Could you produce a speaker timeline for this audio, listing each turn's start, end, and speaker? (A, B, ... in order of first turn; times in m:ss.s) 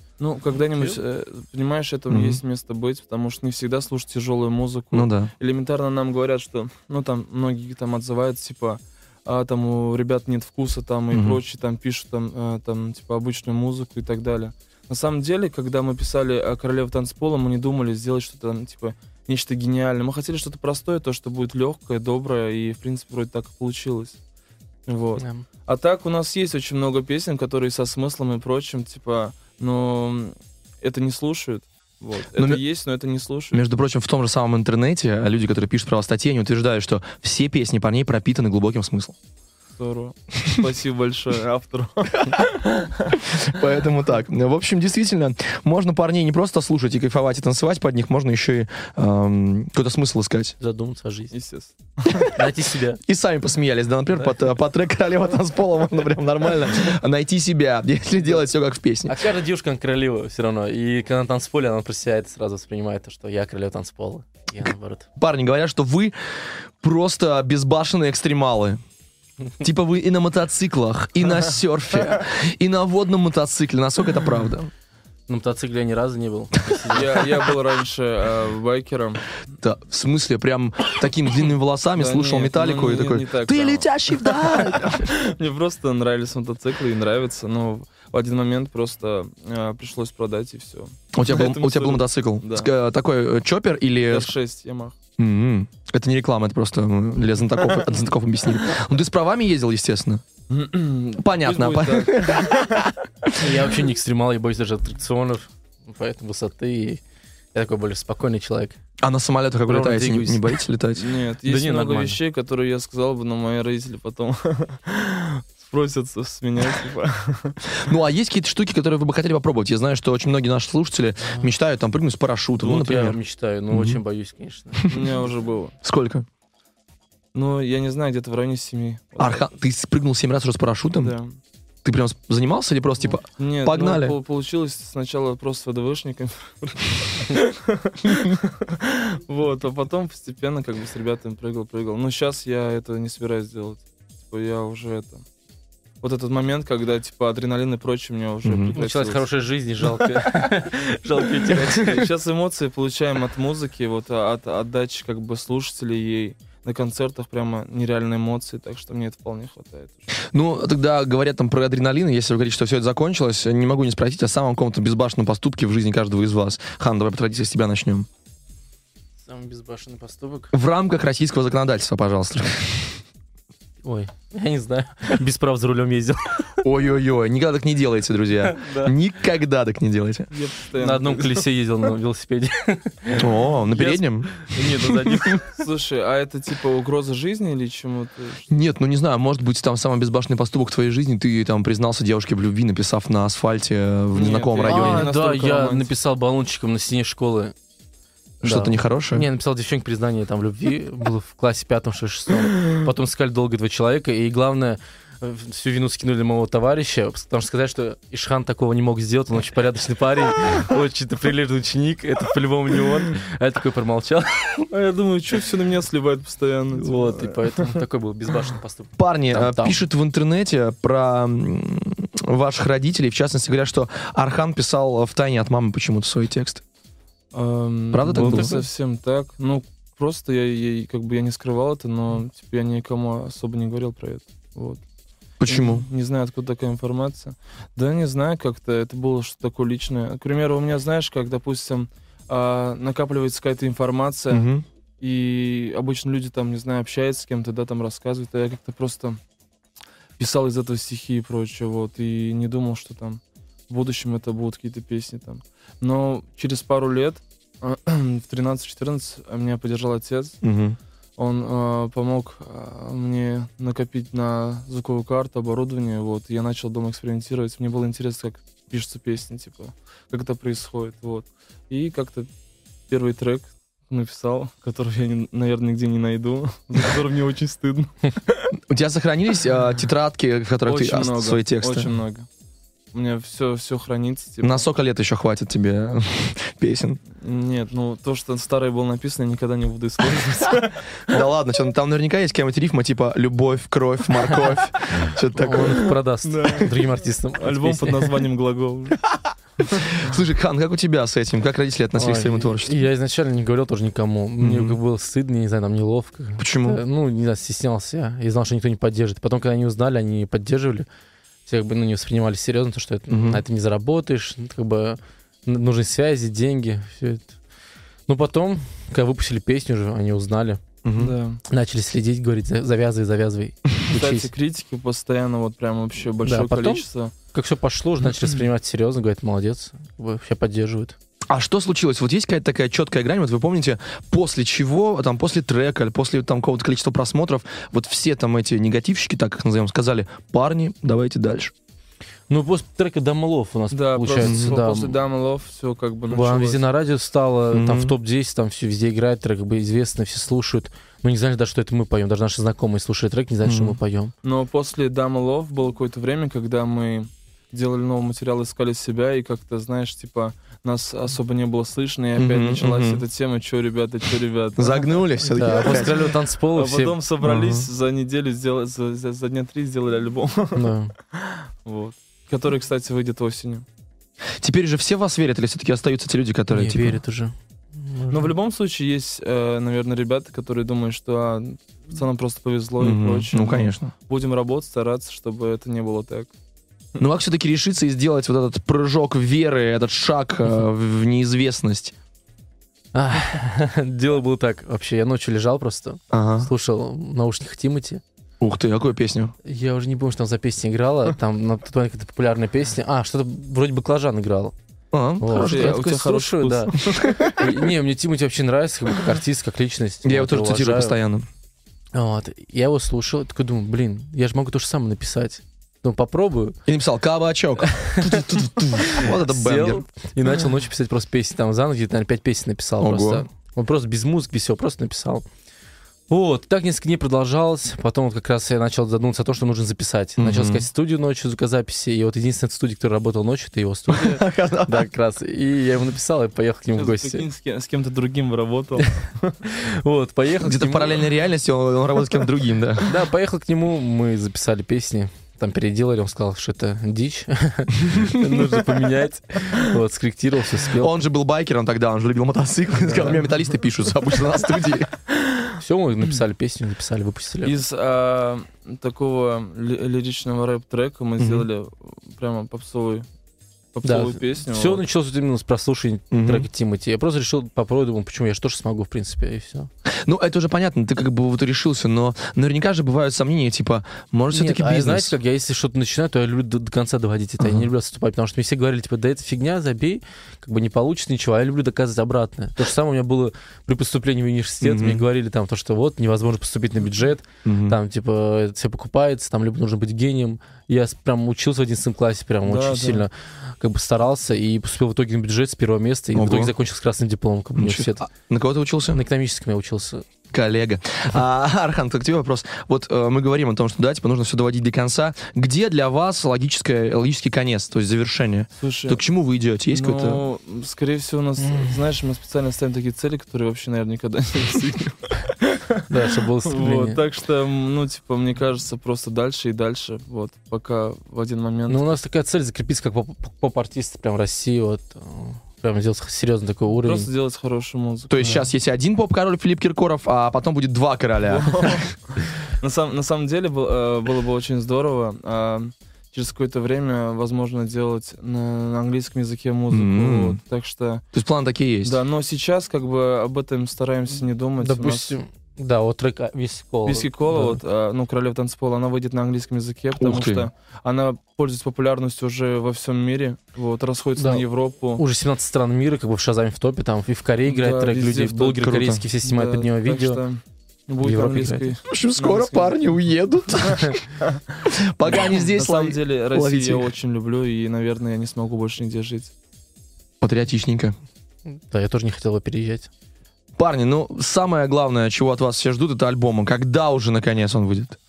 0:00.2-0:24.2 A
0:02.1-0:02.4 B
0:04.9-0:05.3 B
0:11.1-0:11.4 B
0:24.9-0:33.6 A
0:25.2-0:25.4 C
0:32.4-0:32.6 B
0:33.5-0:39.1 B
0:39.8-0:42.5 A
0:43.3-0:50.6 B
0:50.6-0:51.3 C
0:51.3-0:52.3 A
0:52.3-0:53.0 C
0:53.0-0:59.2 B
0:59.1-1:05.1 C
1:05.2-1:06.2 B
1:06.8-1:08.8 B
1:09.6-1:14.7 B
1:15.3-1:17.3 C
1:16.9-1:19.2 A
1:19.6-1:25.1 B
1:21.9-1:32.7 A
1:31.1-1:34.3 B
1:34.1-1:34.9 A
1:35.2-1:40.2 B
1:40.5-1:42.8 A
1:41.2-1:43.6 B
1:43.4-1:47.0 C
1:47.5-1:48.8 C
1:49.0-1:51.1 B
1:49.6-1:50.5 C
1:50.9-1:57.6 A
1:51.4-1:52.2 C
1:57.8-2:03.2 B
2:02.6-2:05.1 C
2:03.7-2:04.0 B
2:04.9-2:05.7 A
2:05.8-2:06.2 B
2:07.3-2:09.5 A
2:09.2-2:11.1 B
2:11.0-2:11.4 A
2:11.8-2:14.2 B
2:13.3-2:25.2 A
2:26.0-2:29.3 A
2:28.4-2:28.7 B
2:28.7-2:32.1 C
2:31.5-2:40.0 A
2:40.3-2:48.1 B
2:49.2-2:50.5 C
2:50.5-2:53.0 B
2:53.8-2:56.5 C
2:56.6-3:00.3 B
2:58.4-2:58.9 C
3:00.3-3:01.4 A
3:00.8-3:05.4 C
3:03.2-3:04.8 B
3:04.6-3:08.5 A
3:08.5-3:15.1 B
3:14.1-3:15.9 A
3:14.6-3:17.5 C
3:18.4-3:34.6 C
3:18.4-3:19.3 B
3:34.7-3:37.7 A
3:36.7-3:39.8 C
3:39.0-3:46.6 B
3:47.3-3:54.8 A
3:47.9-3:48.5 B
3:48.0-3:48.6 C
3:55.4-3:55.8 B
3:55.4-4:04.5 A
4:04.3-4:04.6 B
4:05.0-4:09.2 A
4:10.2-4:20.4 A
4:20.4-4:20.8 B
4:21.2-4:32.3 A
4:32.9-4:38.4 A
4:38.7-4:41.9 B
4:40.6-4:42.2 A
4:42.9-4:44.6 A
4:44.4-4:47.0 B
4:47.2-4:50.9 A
4:51.1-4:55.9 B
4:55.3-4:58.1 C
4:56.2-4:56.9 A
4:57.4-4:59.0 A
4:59.8-5:02.8 B
5:02.0-5:10.9 C
5:04.4-5:04.8 B
5:06.4-5:06.8 B
5:11.4-5:17.3 C
5:13.1-5:13.4 B
5:18.1-5:20.6 C
5:20.8-5:21.2 B
5:21.0-5:21.4 A
5:21.5-5:24.3 C
5:23.8-5:27.1 A
5:26.2-5:31.0 C
5:31.3-5:41.5 B
5:42.3-5:44.9 C
5:43.7-5:46.6 A
5:44.2-5:44.6 B
5:46.1-5:54.1 C
5:47.5-5:47.9 B
5:53.4-5:53.8 B
5:54.2-6:05.0 A
6:02.2-6:03.0 B
6:04.6-6:06.1 B
6:05.3-6:07.0 C
6:05.6-6:05.9 A
6:06.5-6:13.6 A
6:07.2-6:07.6 B
6:10.5-6:10.9 C
6:14.4-6:17.0 B
6:16.5-6:18.3 C
6:18.1-6:26.3 A
6:22.8-6:23.9 B
6:27.0-6:31.9 B
6:32.9-6:38.0 C
6:36.1-6:36.5 B
6:38.4-6:39.3 B
6:39.4-6:44.5 C
6:44.9-6:45.8 B
6:45.2-6:51.0 C
6:45.3-6:47.3 A
6:47.0-6:47.4 B
6:50.0-6:51.2 B
6:51.9-6:56.6 C
6:56.7-6:59.8 B
6:57.6-7:05.2 C
7:02.8-7:03.2 B
7:06.1-7:17.3 C
7:10.2-7:10.6 B
7:13.9-7:14.8 B
7:16.7-7:19.4 A
7:19.4-7:21.0 C
7:20.4-7:22.9 B
7:22.8-7:30.9 C
7:30.7-7:34.9 B
7:32.8-7:33.2 A
7:35.6-7:37.6 C
7:37.4-7:43.0 A
7:41.2-7:41.5 B
7:43.7-7:44.8 A
7:43.8-7:49.7 C
7:46.1-7:46.5 B
7:50.0-7:55.2 B
7:54.3-8:18.1 C
7:57.4-7:57.7 B
8:04.6-8:05.0 B
8:07.4-8:07.8 B
8:12.4-8:13.1 A
8:16.1-8:16.5 B
8:17.6-8:19.0 B
8:18.9-8:20.0 C
8:20.3-8:30.2 B
8:28.6-8:29.0 A
8:29.7-8:35.8 A
8:31.4-8:31.8 C
8:35.9-8:37.0 C
8:36.4-8:41.8 A
8:41.7-8:47.1 C
8:46.7-8:48.3 A
8:48.1-8:51.7 B
8:51.3-8:51.9 A
8:52.6-9:01.0 A
8:59.7-9:00.4 B
9:01.1-9:02.0 B
9:01.8-9:05.2 A
9:04.6-9:07.6 C
9:06.8-9:15.0 A
9:10.0-9:10.5 B
9:14.2-9:14.4 C
9:15.0-9:20.2 C
9:17.4-9:22.8 A
9:18.7-9:19.0 B
9:21.0-9:21.7 C
9:21.9-9:24.0 B
9:24.7-9:26.9 B
9:25.1-9:29.3 A
9:30.2-9:30.9 B
9:31.5-9:32.9 C
9:33.6-9:38.0 B